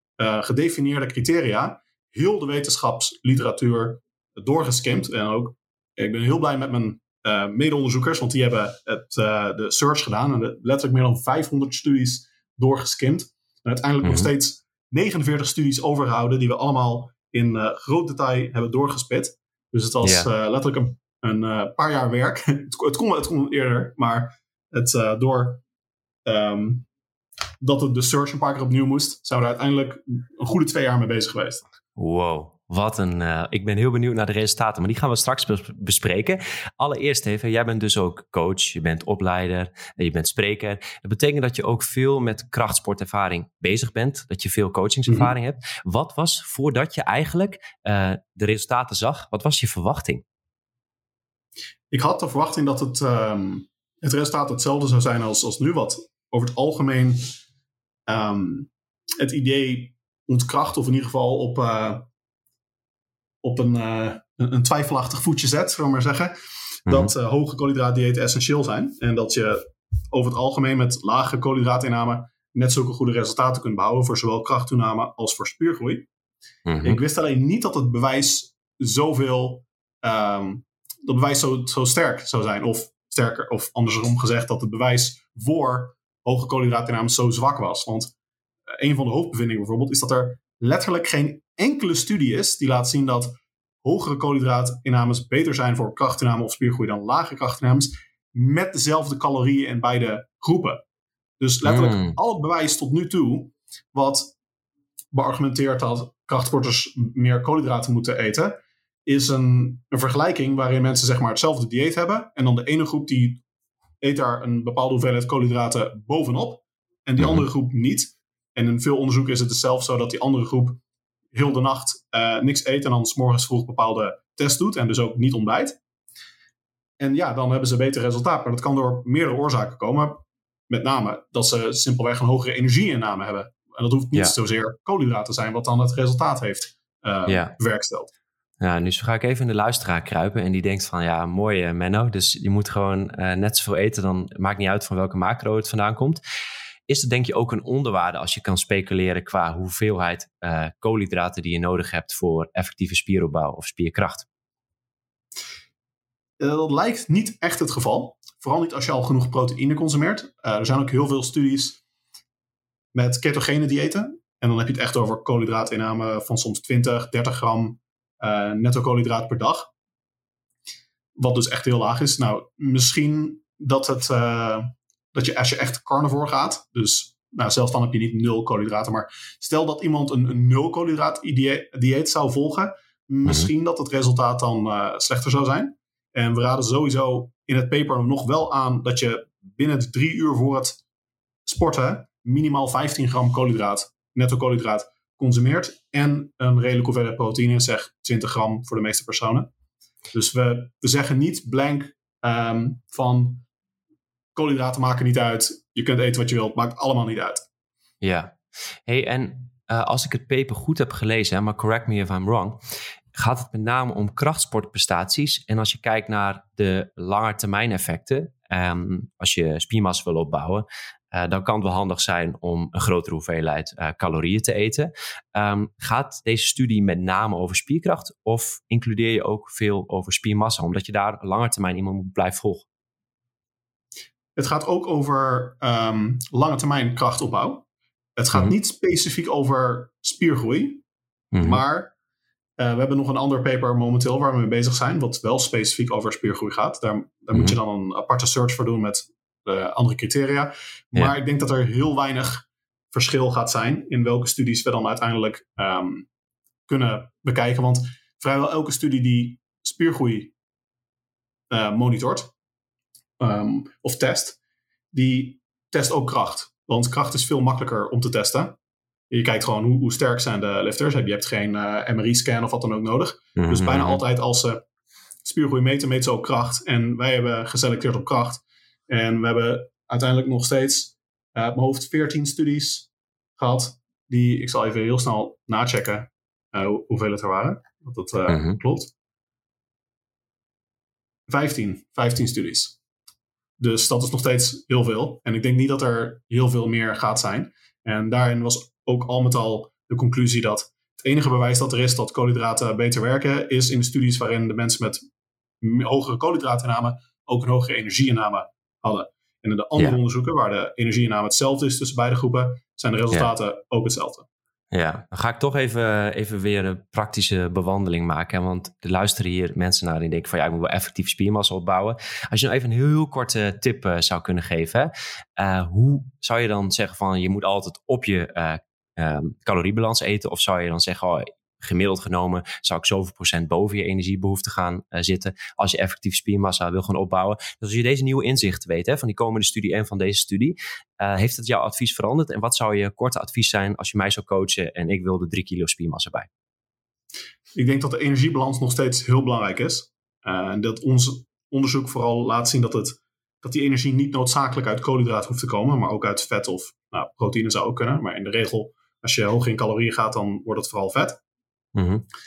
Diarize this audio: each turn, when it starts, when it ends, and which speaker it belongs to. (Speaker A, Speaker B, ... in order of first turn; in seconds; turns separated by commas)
Speaker A: 0.2-25.6, Speaker B: 14.0-14.3, Speaker B: 20.0-20.3, Speaker A: 26.2-26.9, Speaker A: 27.6-31.6, Speaker B: 32.0-50.2, Speaker A: 51.9-57.3, Speaker A: 58.1-62.0, Speaker A: 63.4-66.3, Speaker A: 66.8-76.1, Speaker B: 66.9-67.1, Speaker B: 76.7-77.0, Speaker A: 76.8-88.1, Speaker A: 88.8-100.8, Speaker A: 101.4-104.3, Speaker B: 101.6-102.2, Speaker A: 105.1-113.4, Speaker A: 114.0-120.8, Speaker A: 121.3-125.8, Speaker A: 127.0-138.1, Speaker B: 137.3-137.5, Speaker B: 138.6-146.2, Speaker B: 146.9-154.2, Speaker A: 156.4-161.8, Speaker A: 162.9-169.7, Speaker A: 171.2-190.8, Speaker A: 191.4-199.5, Speaker A: 200.1-203.4, Speaker A: 204.3-207.4, Speaker B: 208.0-212.6, Speaker B: 213.1-232.7, Speaker A: 234.3-237.6, Speaker A: 238.2-240.8, Speaker B: 241.3-241.6, Speaker A: 241.4-241.9, Speaker A: 242.6-256.1, Speaker A: 256.7-260.3, Speaker A: 261.5-262.3, Speaker A: 263.2-264.4, Speaker A: 264.9-268.6, Speaker A: 269.1-274.6, Speaker B: 273.4-274.0, Speaker A: 275.2-288.9, Speaker B: 288.3-288.6, Speaker A: 291.3-292.8, Speaker A: 293.6-305.0, Speaker A: 305.6-314.2, Speaker B: 314.7-346.3, Speaker A: 347.5-361.2, Speaker B: 361.7-362.0